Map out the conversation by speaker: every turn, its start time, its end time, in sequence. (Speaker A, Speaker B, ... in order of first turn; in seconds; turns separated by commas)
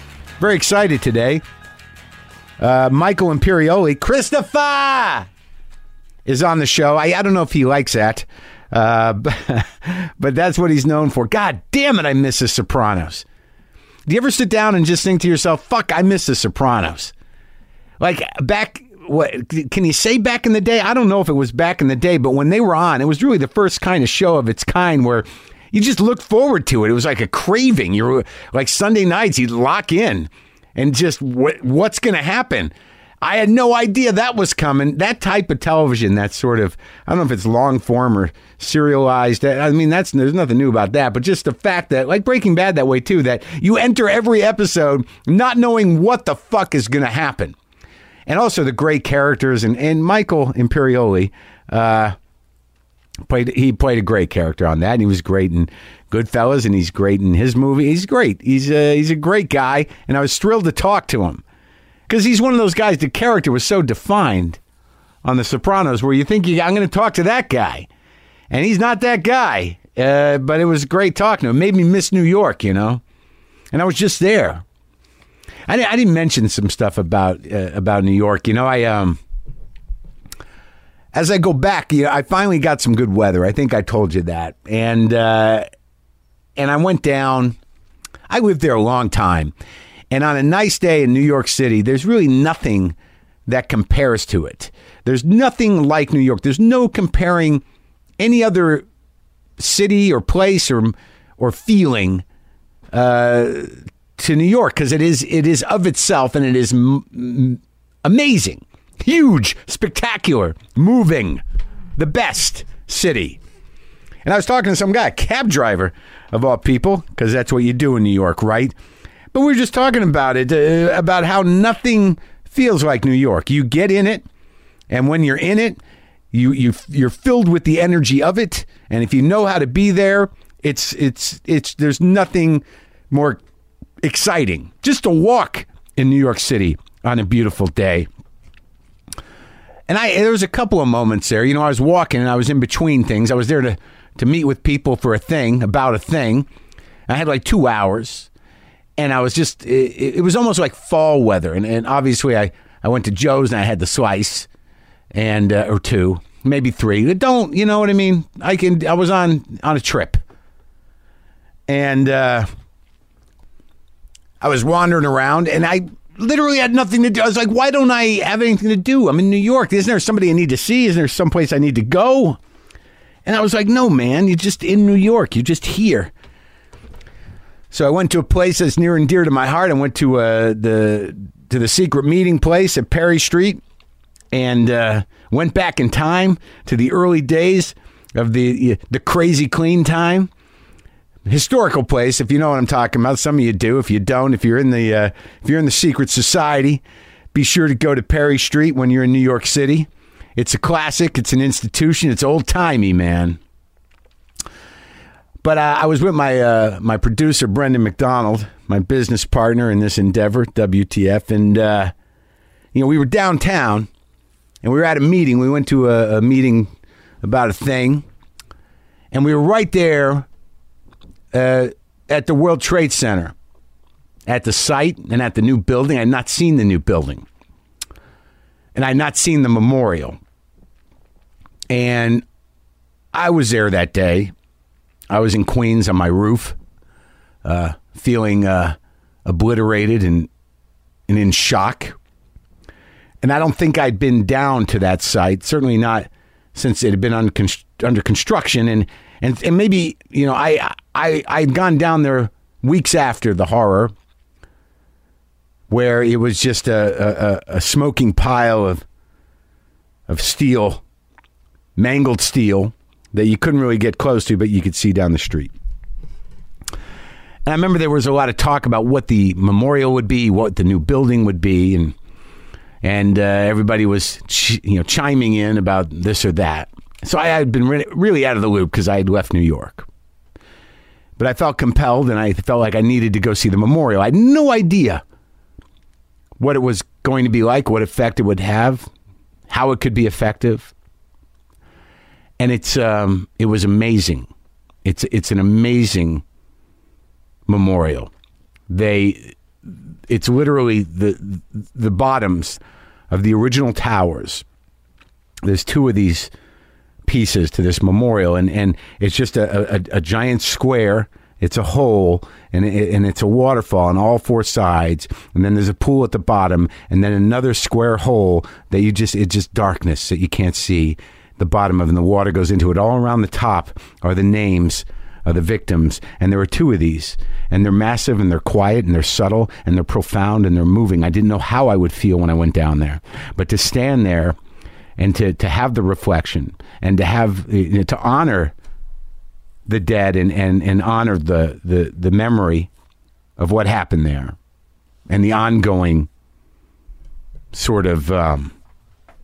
Speaker A: 0.4-1.4, Speaker A: 2.6-5.3, Speaker A: 6.2-13.2, Speaker A: 14.1-17.1, Speaker A: 18.0-47.5, Speaker A: 48.3-52.1, Speaker A: 53.2-61.4, Speaker A: 62.1-64.6, Speaker A: 65.2-67.9, Speaker A: 68.5-73.0, Speaker A: 73.7-74.6, Speaker A: 75.7-79.2, Speaker A: 81.1-85.6, Speaker A: 86.6-87.6, Speaker A: 88.3-89.5, Speaker A: 90.1-93.0, Speaker A: 93.5-97.6, Speaker A: 98.2-98.8, Speaker A: 99.6-102.2, Speaker A: 102.9-111.4, Speaker A: 112.0-113.4, Speaker A: 114.2-118.7, Speaker A: 119.3-124.2, Speaker A: 124.9-125.8, Speaker A: 126.3-133.4, Speaker A: 134.0-138.1, Speaker A: 139.9-146.5, Speaker A: 147.1-148.3, Speaker A: 149.0-154.5, Speaker A: 155.1-160.2, Speaker A: 161.7-162.5, Speaker A: 164.4-172.4, Speaker A: 173.2-176.1, Speaker A: 177.7-183.6, Speaker A: 184.3-190.3, Speaker A: 191.3-203.4, Speaker A: 205.4-211.9, Speaker A: 212.7-213.9, Speaker A: 214.6-216.7, Speaker A: 217.2-218.0, Speaker A: 219.1-220.3, Speaker A: 221.3-223.3, Speaker A: 224.3-227.2, Speaker A: 228.7-230.2, Speaker A: 231.7-232.2, Speaker A: 233.1-234.3, Speaker A: 235.1-236.6, Speaker A: 237.4-240.3, Speaker A: 241.1-242.0, Speaker A: 243.2-253.9, Speaker A: 255.7-258.8, Speaker A: 260.1-260.8, Speaker A: 261.8-265.5, Speaker A: 267.4-271.9, Speaker A: 272.8-279.9, Speaker A: 281.2-285.0, Speaker A: 286.4-288.9, Speaker A: 289.5-290.7, Speaker A: 292.4-294.3, Speaker A: 294.8-296.2, Speaker A: 297.5-298.1, Speaker A: 298.7-304.4, Speaker A: 305.4-306.3, Speaker A: 307.0-334.4, Speaker A: 335.0-338.5, Speaker A: 339.6-342.7, Speaker A: 343.4-344.4, Speaker A: 345.1-346.1, Speaker A: 347.5-348.5